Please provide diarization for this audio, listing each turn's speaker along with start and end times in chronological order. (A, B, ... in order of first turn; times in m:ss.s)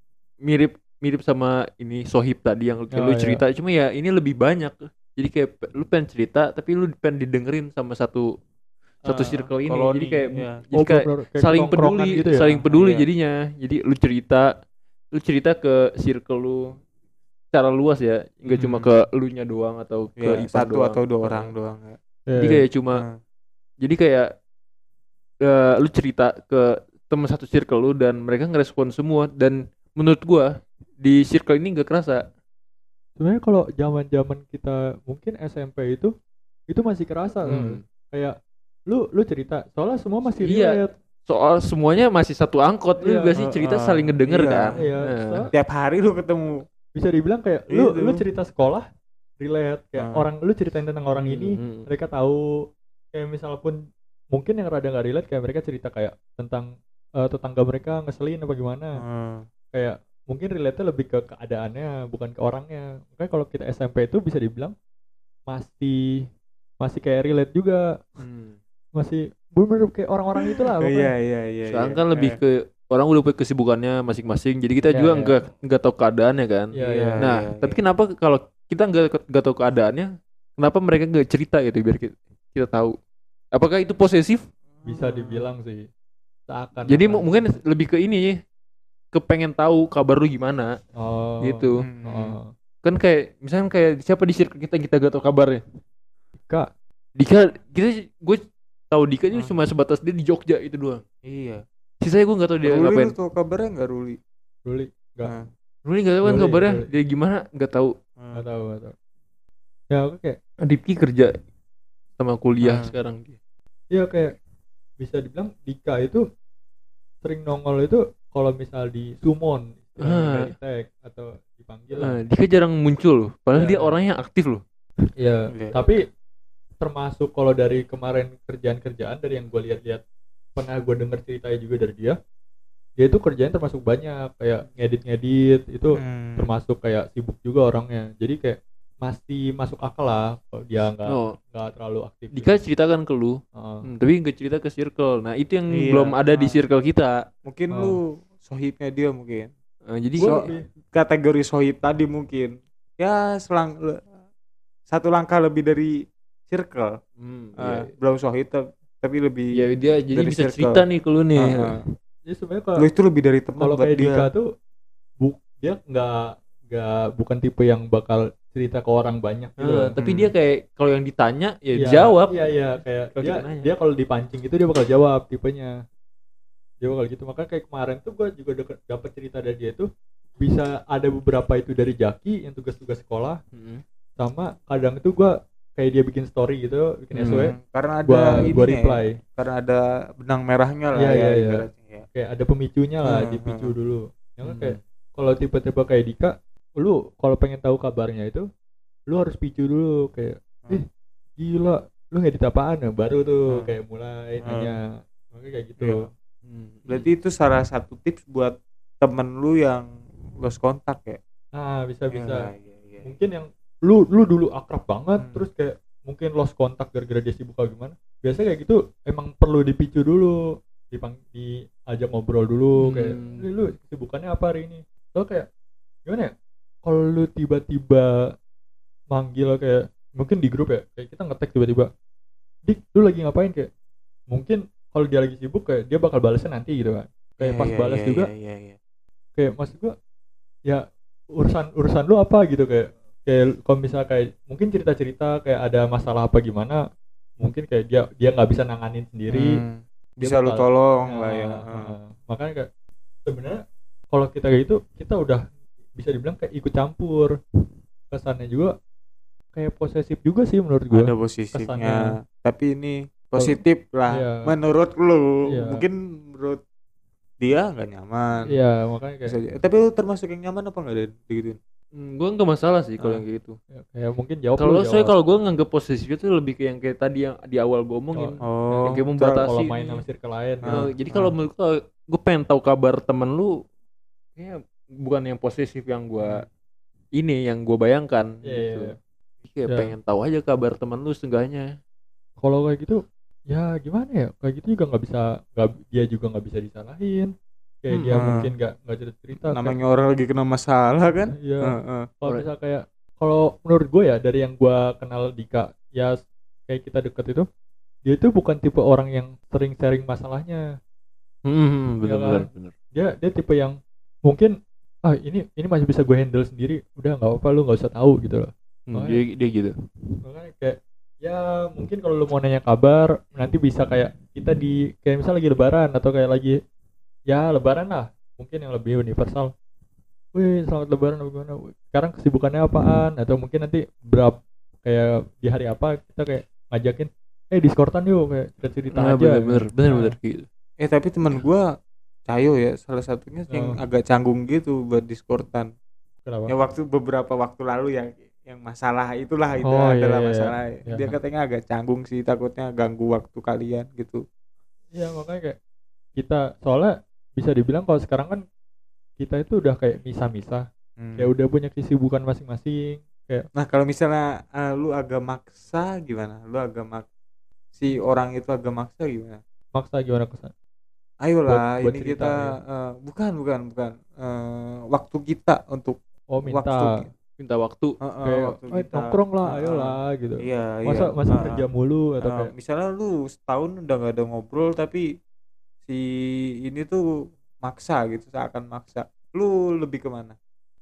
0:00.4-0:08.4 A
0:02.9-0:03.4 B
0:09.0-0:14.6 A
0:09.1-0:10.6 C
0:10.7-0:12.5 B
0:12.4-0:13.0 C
0:15.1-0:16.8 A
0:17.5-0:21.5 A
0:18.5-0:18.9 C
0:20.2-0:22.0 C
0:22.3-0:22.6 B
0:22.4-0:23.0 A
0:23.8-0:24.3 A
0:25.4-0:32.3 A
0:33.2-0:36.1 B
0:36.7-0:38.3 B
0:37.4-0:37.8 A
0:38.9-0:40.9 B
0:40.4-0:45.4 A
0:43.0-0:43.3 B
0:43.4-0:44.9 C
0:44.7-0:45.5 B
0:45.5-0:46.6 C
0:46.9-0:48.8 B
0:47.7-0:48.2 C
0:49.4-0:52.4 B
0:50.0-0:50.2 C
0:51.2-0:51.9 A
0:53.1-0:53.8 B
0:54.3-0:56.7 B
0:57.2-0:59.0 B
0:59.0-0:59.5 C
0:59.7-1:04.7 B
1:05.5-1:06.3 B
1:06.8-1:07.9 B
1:08.2-1:08.6 A
1:09.0-1:11.1 B
1:10.5-1:12.4 C
1:11.7-1:23.0 A
1:14.9-1:15.3 B
1:16.7-1:17.2 B
1:16.8-1:17.8 C
1:23.5-1:24.4 A
1:24.8-1:25.5 C
1:24.8-1:25.9 B
1:26.5-1:27.6 B
1:26.9-1:28.4 A
1:29.1-1:30.8 A
1:30.9-1:32.5 B
1:31.4-1:31.8 A
1:31.8-1:32.4 C
1:32.8-1:35.6 A
1:36.4-1:36.7 B
1:37.2-1:41.0 A
1:41.2-1:41.6 C
1:42.0-1:43.1 A
1:42.6-1:44.2 C
1:44.6-1:45.3 B
1:45.8-1:47.9 A
1:46.2-1:46.8 B
1:48.2-1:48.4 C
1:48.3-1:48.9 B
1:49.9-1:50.4 B
1:50.6-1:51.3 A
1:52.2-1:53.4 A
1:52.6-1:52.9 C
1:53.9-1:54.3 B
1:55.0-1:56.2 B
1:57.2-2:02.2 B
2:00.0-2:00.5 A
2:02.0-2:04.6 A
2:03.5-2:03.9 B
2:05.2-2:06.0 B
2:05.5-2:05.8 C
2:06.8-2:10.0 B
2:10.6-2:12.2 B
2:13.0-2:22.5 B
2:16.0-2:16.5 C
2:21.1-2:21.3 A
2:22.3-2:27.2 A
2:23.5-2:23.8 B
2:25.7-2:26.6 C
2:27.4-2:29.5 C
2:27.7-2:28.0 B
2:29.9-2:30.4 A
2:30.2-2:30.6 B
2:30.2-2:34.0 C
2:34.9-2:35.9 C
2:36.5-2:37.0 C
2:37.2-2:37.9 A
2:37.6-2:40.8 C
2:39.5-2:41.8 A
2:41.4-2:41.8 C
2:42.3-2:42.8 B
2:42.8-2:44.3 C
2:43.6-2:44.5 B
2:45.2-2:49.9 B
2:49.6-2:52.5 A
2:50.0-2:50.3 C
2:51.8-2:55.8 B
2:53.1-2:53.7 A
2:56.8-2:59.9 B
3:00.4-3:03.4 B
3:03.5-3:03.8 A
3:04.2-3:07.5 B
3:07.1-3:07.5 A
3:07.2-3:12.0 C
3:08.0-3:09.2 B
3:11.0-3:18.4 B
3:13.0-3:13.7 C
3:14.4-3:14.8 A
3:19.1-3:20.8 B
3:21.4-3:26.1 B
3:24.4-3:24.7 C
3:25.8-3:26.1 C
3:26.5-3:27.1 A
3:26.9-3:29.8 C
3:30.4-3:31.2 C
3:31.5-3:32.5 B
3:32.1-3:33.1 C
3:33.0-3:45.5 B
3:35.2-3:35.4 C
3:42.8-3:43.4 A
3:46.1-3:46.3 B
3:46.8-3:48.1 B
3:49.1-3:51.9 B
3:52.7-3:53.7 B
3:54.3-3:58.3 B
3:57.4-3:58.8 C
3:59.4-3:59.9 B
4:01.4-4:06.8 B
4:07.4-4:09.6 B
4:09.3-4:11.9 C
4:10.2-4:12.7 B
4:13.2-4:13.6 B
4:14.1-4:15.4 B
4:16.0-4:17.3 B
4:18.1-4:18.7 B
4:19.5-4:22.1 B
4:20.9-4:26.6 C
4:24.1-4:24.5 B
4:25.5-4:25.8 B
4:27.4-4:28.5 C
4:28.5-4:29.3 B
4:29.2-4:31.6 C
4:31.9-4:33.6 A
4:33.7-4:35.1 B
4:34.6-4:40.0 A
4:38.1-4:41.3 B
4:38.4-4:39.5 C
4:40.6-4:40.9 C
4:40.6-4:43.6 A
4:44.4-4:46.4 A
4:47.1-4:48.9 A
4:48.4-4:49.0 B
4:49.4-4:51.7 A
4:49.7-4:49.9 B
4:52.4-4:57.3 B
4:57.8-4:59.8 B
4:57.9-4:58.2 A
4:58.1-4:58.5 C
4:59.5-5:02.1 C
5:01.4-5:06.2 B
5:06.7-5:07.4 B
5:08.0-5:10.6 B
5:11.4-5:12.7 A
5:12.0-5:19.2 B
5:18.9-5:19.7 A
5:20.2-5:26.6 B
5:27.3-5:29.5 B
5:30.3-5:40.2 B
5:38.9-5:40.5 A
5:40.8-5:41.6 C
5:42.3-5:45.7 C
5:43.5-5:43.8 B
5:46.2-5:46.5 B
5:46.5-5:54.2 C
5:49.6-5:51.1 B
5:54.9-5:55.6 B
5:56.2-5:58.4 B
5:59.2-6:00.6 B
6:01.0-6:01.3 C
6:01.2-6:03.5 B
6:03.6-6:07.1 C
6:07.7-6:09.4 C
6:09.7-6:10.5 B
6:11.2-6:17.1 C
6:11.5-6:12.5 B
6:16.3-6:16.9 B
6:17.4-6:17.9 A
6:18.0-6:21.6 C
6:18.2-6:22.5 B
6:22.2-6:25.0 C
6:26.6-6:27.0 C
6:27.6-6:30.4 C